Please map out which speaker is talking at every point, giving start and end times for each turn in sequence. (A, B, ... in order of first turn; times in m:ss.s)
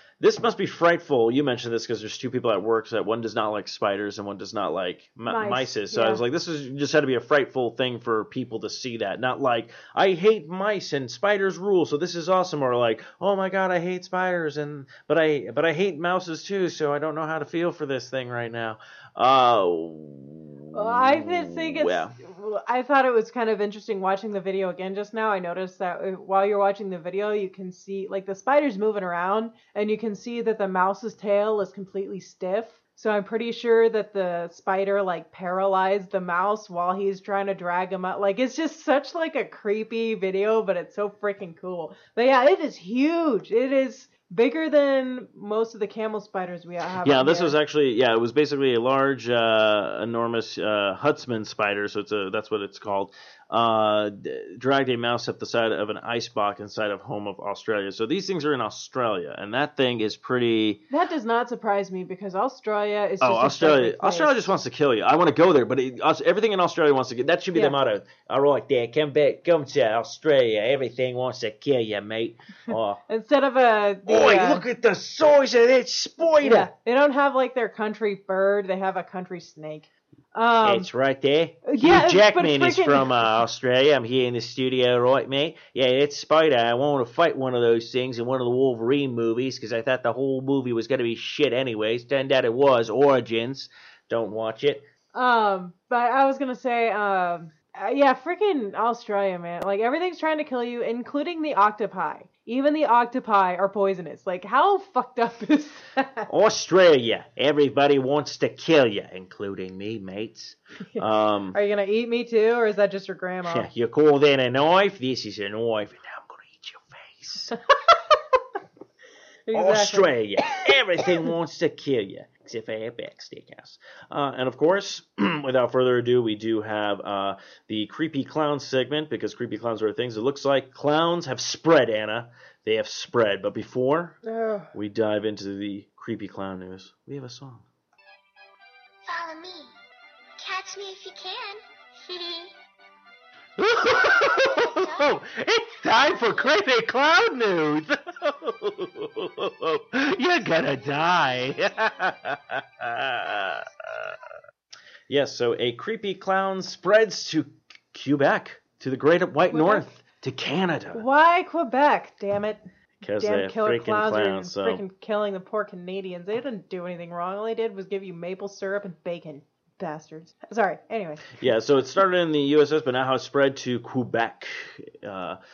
0:00.2-0:22.2 A
0:05.2-0:06.2 B
0:20.7-0:47.6 B
0:47.0-1:00.8 A
1:00.9-1:04.5 B
1:03.2-1:13.0 A
1:13.1-1:14.6 B
1:14.1-1:16.7 A
1:16.4-1:20.9 B
1:20.6-1:34.9 A
1:21.6-1:23.1 B
1:35.1-1:46.3 B
1:46.3-1:51.6 A
1:50.9-1:53.7 B
1:53.5-1:57.6 A
1:59.5-2:00.7 B
1:59.5-2:14.2 A
2:14.2-2:14.7 B
2:14.7-2:17.6 A
2:19.1-2:19.7 C
2:20.4-2:22.5 C
2:23.6-2:34.2 A
2:24.0-2:25.0 C
2:26.2-2:26.4 C
2:35.1-2:41.0 A
2:39.5-2:39.9 B
2:40.9-2:42.6 B
2:43.0-2:44.8 A
2:43.2-2:51.4 B
2:51.4-2:55.4 A